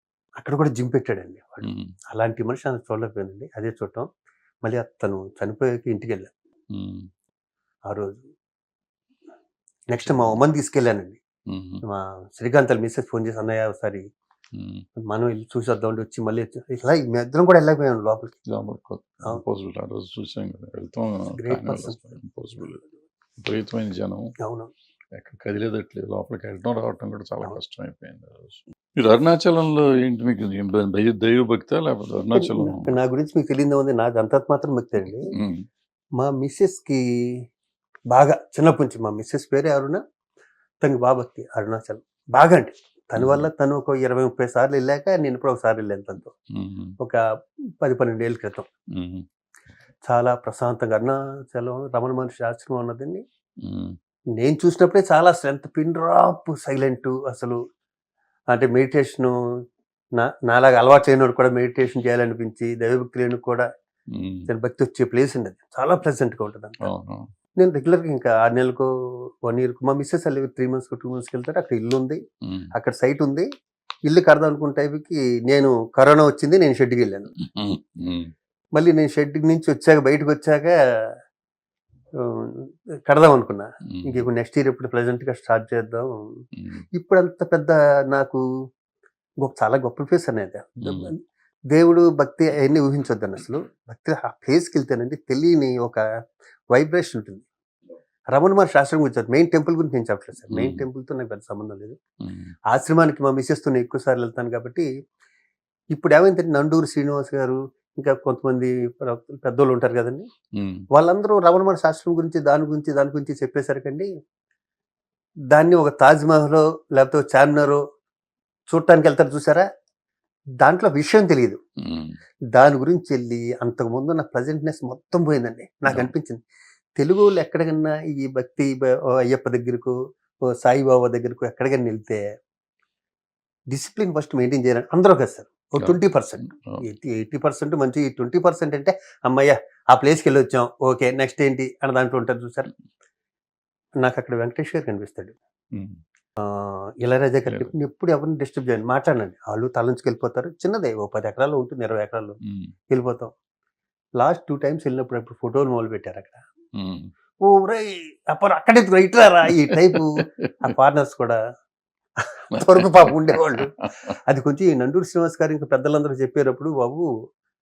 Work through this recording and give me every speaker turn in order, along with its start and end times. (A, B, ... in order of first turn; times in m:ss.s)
0:00.4-0:04.1 A
0:01.6-0:01.9 B
0:04.6-0:06.3 A
0:06.7-0:07.1 B
0:07.9-0:08.2 A
0:09.9-0:11.2 A
0:10.0-0:10.4 B
0:11.5-0:11.8 B
0:11.8-0:14.0 A
0:14.5-0:14.8 B
0:15.0-0:18.4 A
0:18.5-0:22.8 B
0:21.4-0:22.2 A
0:23.4-0:24.3 B
0:24.4-0:24.7 A
0:25.1-0:33.0 B
0:32.3-0:35.3 A
0:35.4-0:35.6 B
0:36.2-0:37.0 A
0:38.1-0:40.0 A
0:40.8-0:46.3 A
0:43.2-0:43.5 B
0:46.5-0:46.9 B
0:47.8-0:48.6 A
0:48.9-0:49.2 B
0:50.1-0:53.2 A
0:53.6-0:54.0 B
0:54.4-0:57.6 A
0:58.5-0:59.3 A
1:00.2-1:03.6 A
1:04.1-1:04.4 B
1:04.5-1:06.8 A
1:06.8-1:07.2 B
1:07.6-1:08.9 A
1:09.4-1:12.2 A
1:12.4-1:12.7 B
1:12.7-1:13.5 A
1:14.0-1:17.3 A
1:17.4-1:18.3 B
1:18.8-1:20.7 A
1:22.2-1:26.1 A
1:23.9-1:24.3 B
1:26.6-1:26.8 B
1:27.0-1:28.4 A
1:29.4-1:31.1 A
1:30.8-1:31.1 B
1:31.7-1:36.0 A
1:36.7-1:37.4 A
1:38.3-1:42.0 A
1:40.5-1:40.8 B
1:42.2-1:42.5 B
1:42.7-1:44.8 A
1:45.9-1:50.3 A
1:50.6-1:50.8 B
1:50.9-1:54.1 A
1:55.5-1:57.8 A
1:58.7-1:59.6 A
2:00.6-2:01.6 A
2:01.8-2:02.2 B
2:02.6-2:06.4 A
2:07.0-2:09.9 A
2:10.6-2:12.2 A
2:13.7-2:22.7 A
2:15.8-2:16.8 B
2:24.0-2:25.3 A
2:25.7-2:26.0 B
2:26.4-2:32.4 A
2:32.4-2:32.7 B
2:32.9-2:33.3 A
2:34.2-2:36.4 A
2:36.8-2:37.1 B
2:37.4-2:41.4 A
2:39.5-2:40.5 B
2:42.2-2:47.1 A
2:42.5-2:43.1 B